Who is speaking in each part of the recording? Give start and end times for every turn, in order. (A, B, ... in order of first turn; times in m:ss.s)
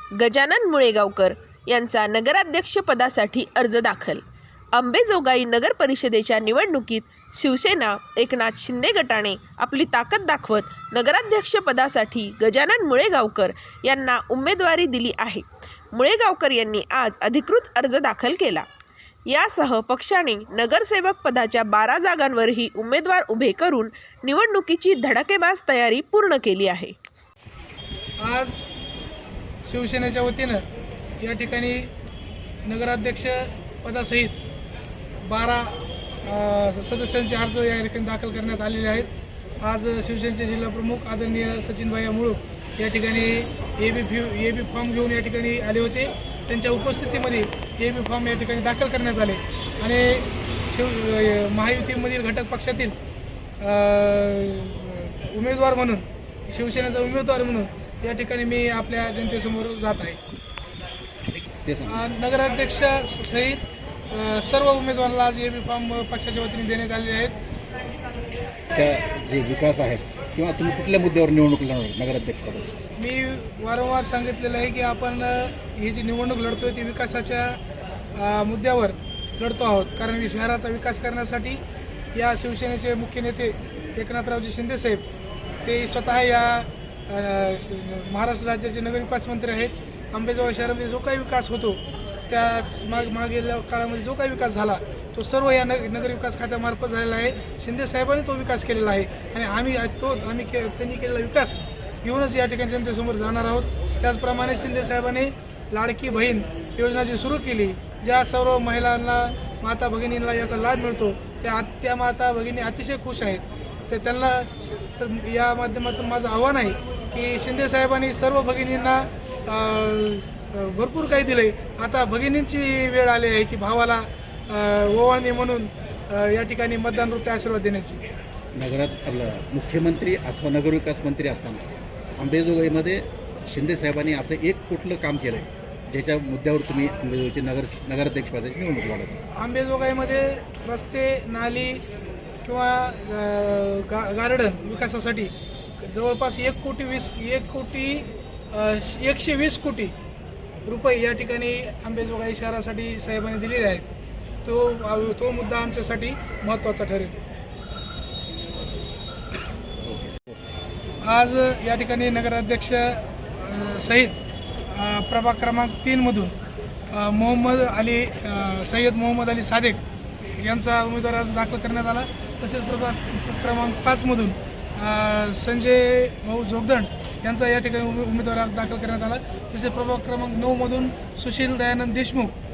0:00.1-0:04.2 A
0:04.7-0:18.7 A
0:19.3-0:26.9 A
0:28.2-0:28.6 B
0:29.6-0:30.6 B
0:31.2-0:31.9 B
0:32.6-0:34.4 B
0:35.2-0:53.0 B
0:53.6-1:00.2 B
1:01.6-1:02.0 C
1:01.9-1:07.4 B
1:08.7-1:12.8 C
1:13.0-1:17.6 B
1:18.1-1:21.6 B
1:22.1-1:25.0 B
1:25.6-2:08.0 B
2:08.6-2:11.6 C
2:12.2-2:19.2 C
2:19.4-2:21.8 B
2:22.4-2:29.9 B
2:30.6-2:33.9 B
2:34.4-2:37.1 B
2:39.8-2:40.3 C
2:41.0-2:44.2 B
2:44.7-2:46.3 B
2:46.9-2:49.8 B
2:50.4-3:02.3 B